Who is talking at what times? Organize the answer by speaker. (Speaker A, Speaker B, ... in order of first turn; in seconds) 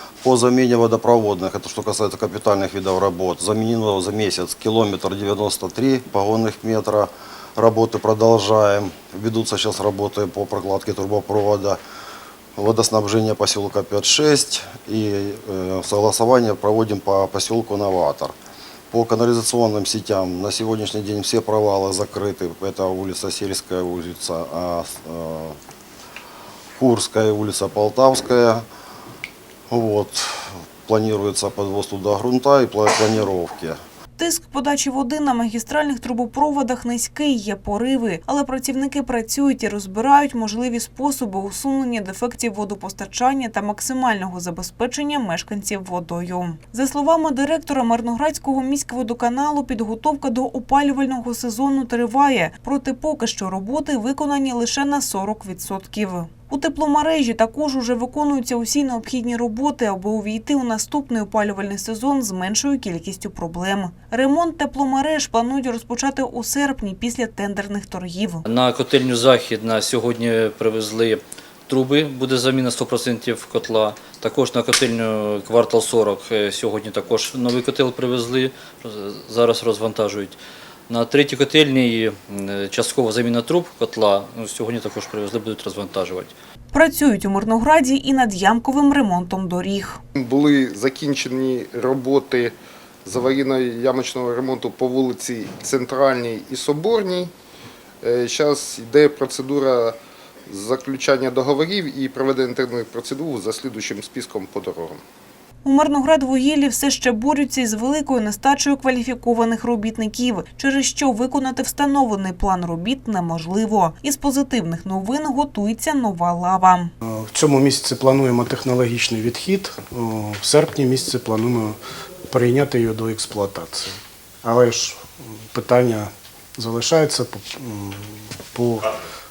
Speaker A: 0.2-11.8, 12.6-18.3, 18.9-25.6, 26.8-28.6, 29.7-33.8
Speaker B: 34.2-68.5, 86.7-90.0, 105.6-116.9
Speaker C: 68.5-80.4, 80.9-86.3
Speaker D: 90.2-97.3, 98.0-100.0, 100.5-105.0
Speaker E: 117.0-121.8, 122.3-128.9